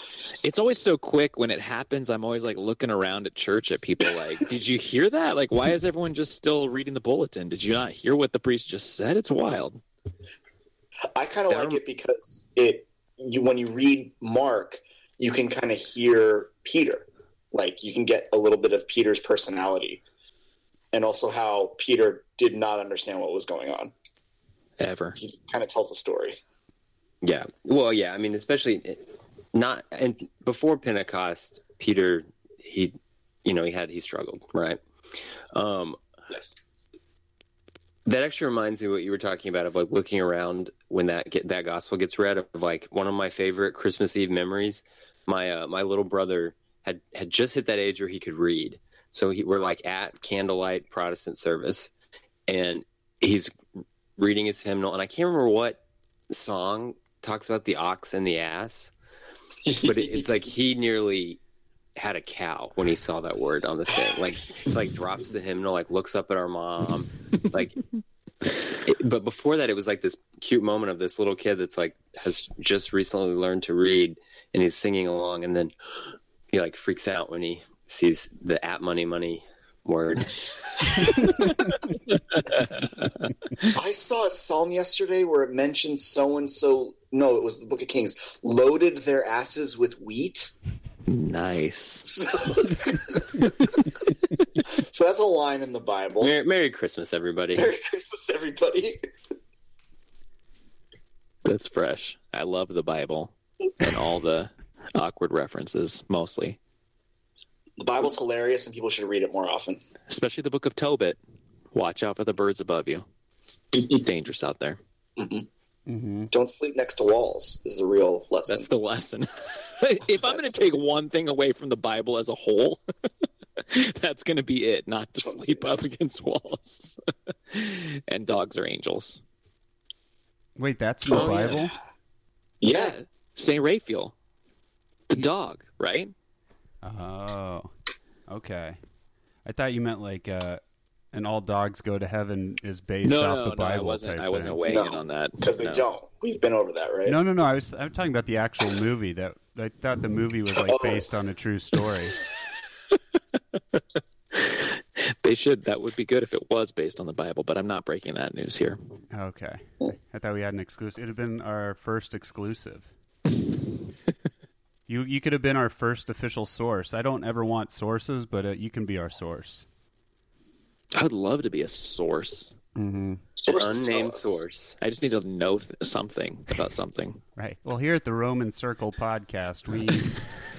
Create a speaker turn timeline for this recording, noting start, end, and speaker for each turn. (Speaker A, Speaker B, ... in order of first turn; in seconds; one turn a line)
Speaker A: 0.4-9.8
Speaker B: 11.1-20.0
Speaker C: 11.5-11.8
Speaker B: 20.9-23.9
Speaker A: 24.8-25.2
Speaker B: 25.2-26.4
Speaker C: 27.2-34.8
Speaker C: 35.5-36.0
Speaker C: 38.1-51.9
Speaker C: 52.5-53.5
Speaker C: 54.2-58.9
Speaker B: 59.6-60.3
Speaker C: 59.8-61.4
Speaker C: 62.0-67.8
Speaker C: 68.8-75.7
Speaker C: 76.5-80.4
Speaker C: 81.0-81.5
Speaker B: 83.7-90.5
Speaker A: 91.1-92.2
Speaker B: 92.1-93.5
Speaker B: 94.8-96.3
Speaker C: 96.2-97.7
Speaker B: 97.5-99.0
Speaker A: 101.4-106.6
Speaker B: 107.8-109.8
Speaker A: 110.1-111.2
Speaker A: 111.7-113.1
Speaker A: 113.8-114.8
Speaker B: 115.2-115.5
Speaker D: 115.9-116.3
Speaker B: 116.3-118.7
Speaker A: 118.5-122.8
Speaker B: 120.2-120.6
Speaker A: 123.6-127.0
Speaker B: 125.2-125.8
Speaker A: 127.5-129.2
Speaker D: 130.6-131.7
Speaker B: 131.1-131.8
Speaker B: 132.6-133.0
Speaker A: 132.7-134.1
Speaker A: 135.1-136.1
Speaker D: 136.8-137.7
Speaker D: 138.3-138.8
Speaker D: 139.4-140.6
Speaker D: 141.1-144.6
Speaker A: 143.0-145.8
Speaker B: 144.7-147.2
Speaker D: 147.1-152.2
Speaker B: 150.6-151.1
Speaker A: 154.3-158.8
Speaker D: 159.1-162.9
Speaker D: 164.9-169.7
Speaker A: 170.9-172.6
Speaker D: 172.8-173.2
Speaker B: 173.4-174.4
Speaker C: 173.5-174.8
Speaker A: 174.8-177.2
Speaker D: 177.4-180.2